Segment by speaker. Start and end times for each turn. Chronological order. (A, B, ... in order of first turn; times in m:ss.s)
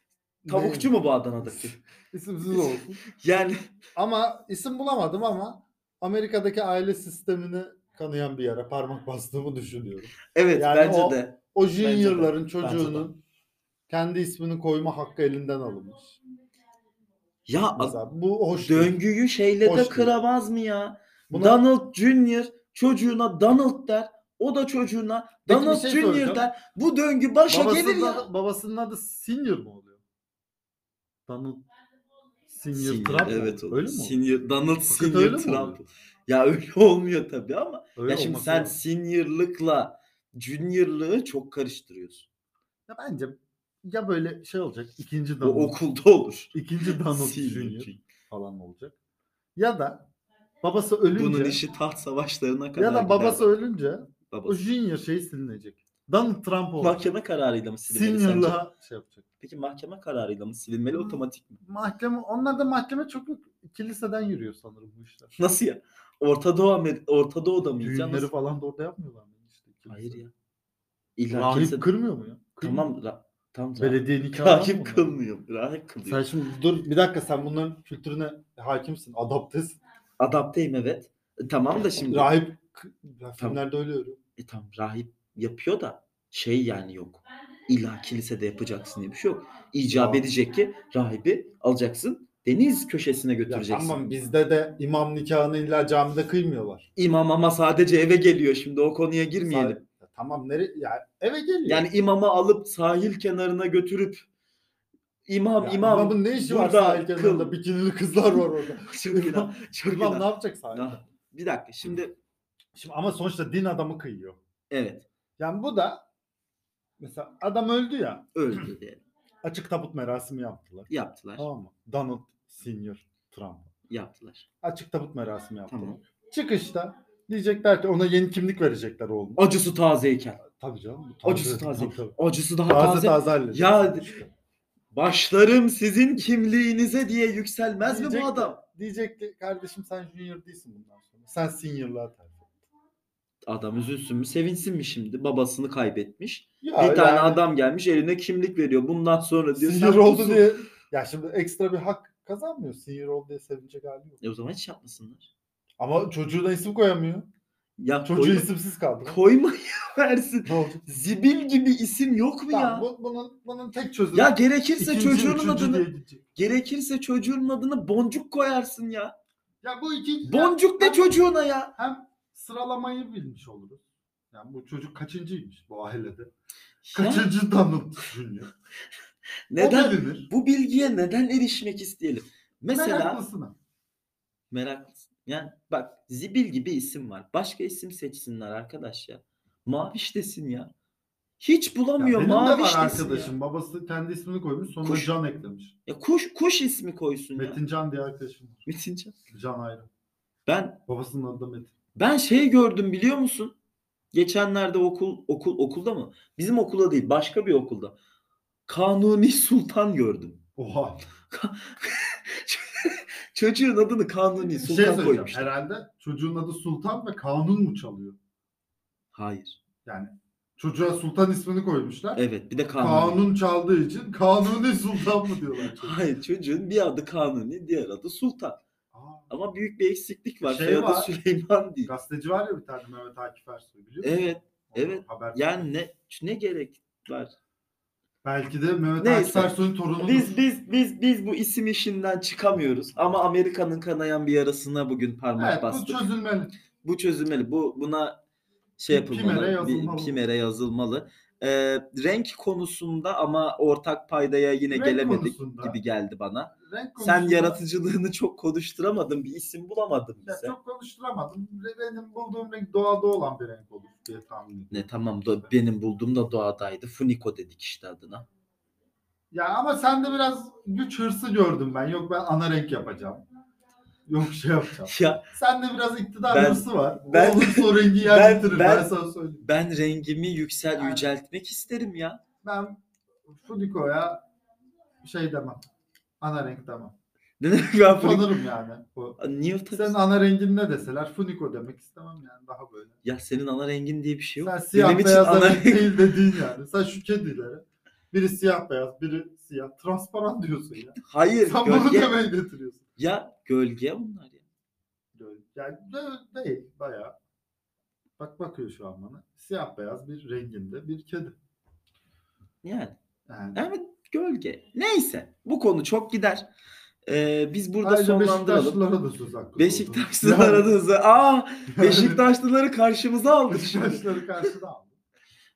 0:00.4-0:03.0 A
0:00.5-0:01.8 B
0:02.5-0:03.7 B
0:03.9-0:13.2 A
0:10.3-0:13.1 B
0:13.9-0:16.2 A
0:17.4-0:18.0 B
0:17.8-0:19.0 A
0:18.6-0:28.3 B
0:19.6-0:20.1 A
0:21.3-0:21.6 A
0:25.5-0:26.4 A
0:27.5-0:30.0 A
0:31.3-0:31.6 A
0:32.5-0:35.8 A
0:32.7-0:42.3 B
0:38.0-0:38.8 A
0:42.9-0:45.8 A
0:45.4-0:48.0 B
0:46.5-0:49.0 A
0:49.6-0:50.1 A
0:50.6-0:51.6 A
0:51.1-0:53.5 B
0:52.8-0:57.0 A
0:54.3-0:54.6 B
0:56.8-0:58.6 B
0:57.9-0:59.2 A
0:59.4-1:01.6 B
1:00.9-1:05.3 A
1:05.3-1:08.3 B
1:07.6-1:10.2 A
1:09.9-1:10.3 B
1:11.2-1:11.9 B
1:11.3-1:12.9 A
1:12.6-1:16.3 B
1:13.8-1:15.2 A
1:16.0-1:19.8 A
1:20.2-1:22.4 B
1:22.1-1:24.2 A
1:24.4-1:34.0 B
1:29.9-1:30.3 A
1:33.5-1:36.9 A
1:37.0-1:39.8 B
1:39.4-1:41.9 A
1:41.6-1:44.2 B
1:45.3-1:47.5 B
1:45.6-1:51.0 A
1:48.8-1:52.2 B
1:52.7-1:54.4 A
1:54.7-1:55.1 B
1:55.4-1:56.0 A
1:57.0-1:58.7 A
1:58.3-1:59.0 B
1:59.4-2:03.7 A
2:00.9-2:01.5 B
2:03.9-2:04.5 B
2:04.6-2:09.5 A
2:05.7-2:06.0 B
2:09.4-2:10.4 B
2:10.4-2:14.2 A
2:11.2-2:14.2 B
2:14.9-2:18.6 B
2:17.8-2:22.5 A
2:23.4-2:30.5 B
2:26.6-2:27.4 A
2:29.6-2:34.2 A
2:34.2-2:35.3 B
2:35.8-2:37.3 A
2:37.8-2:38.5 B
2:38.0-2:39.2 A
2:39.0-2:42.9 B
2:40.4-2:40.8 A
2:42.5-2:46.2 A
2:44.1-2:49.1 B
2:49.6-2:56.3 A
2:50.2-2:51.7 B
2:56.8-2:57.3 B
2:56.9-2:58.5 A
2:59.5-3:03.2 B
2:59.6-3:00.3 A
3:02.7-3:03.6 A
3:04.5-3:10.7 B
3:11.4-3:13.3 B
3:12.0-3:15.7 A
3:14.8-3:15.1 B
3:15.9-3:17.6 B
3:17.4-3:18.6 A
3:18.6-3:19.1 B
3:19.3-3:19.9 A
3:20.4-3:20.8 B
3:20.9-3:21.7 A
3:21.9-3:23.6 B
3:24.1-3:28.0 B
3:28.7-3:30.4 B
3:30.6-3:31.0 A
3:31.3-3:35.5 B
3:34.6-3:38.2 A
3:39.1-3:39.6 B
3:39.8-3:42.2 A
3:42.1-3:43.2 B
3:42.8-3:46.0 A
3:45.8-3:48.6 B
3:48.9-3:49.3 A
3:49.3-3:51.9 B
3:50.4-3:51.1 A
3:51.8-3:55.7 A
3:54.0-3:57.3 B
3:58.2-4:00.4 A
3:59.0-4:06.0 B
4:05.4-4:06.5 A
4:06.8-4:08.2 B
4:08.8-4:20.6 B
4:08.9-4:10.2 A
4:14.7-4:15.8 A
4:16.6-4:17.6 A
4:20.2-4:25.5 A
4:24.7-4:28.2 B
4:29.3-4:33.2 A
4:34.1-4:39.4 A
4:34.9-4:35.2 B
4:36.3-4:42.2 B
4:40.7-4:41.1 A
4:42.4-4:44.2 A
4:45.0-4:45.6 A
4:46.2-4:46.9 A
4:47.4-4:48.4 B
4:47.9-4:49.2 A
4:49.2-4:50.0 B
4:49.7-4:53.0 A
4:53.0-4:56.2 B
4:54.4-5:02.8 A
5:01.0-5:02.2 B
5:03.0-5:04.4 B
5:05.1-5:07.2 A
5:08.2-5:11.4 A
5:12.6-5:13.0 B
5:13.3-5:13.6 A
5:13.5-5:16.5 B
5:17.0-5:18.8 B
5:17.8-5:20.7 A
5:19.6-5:24.5 B
5:21.7-5:22.2 A
5:23.5-5:25.0 A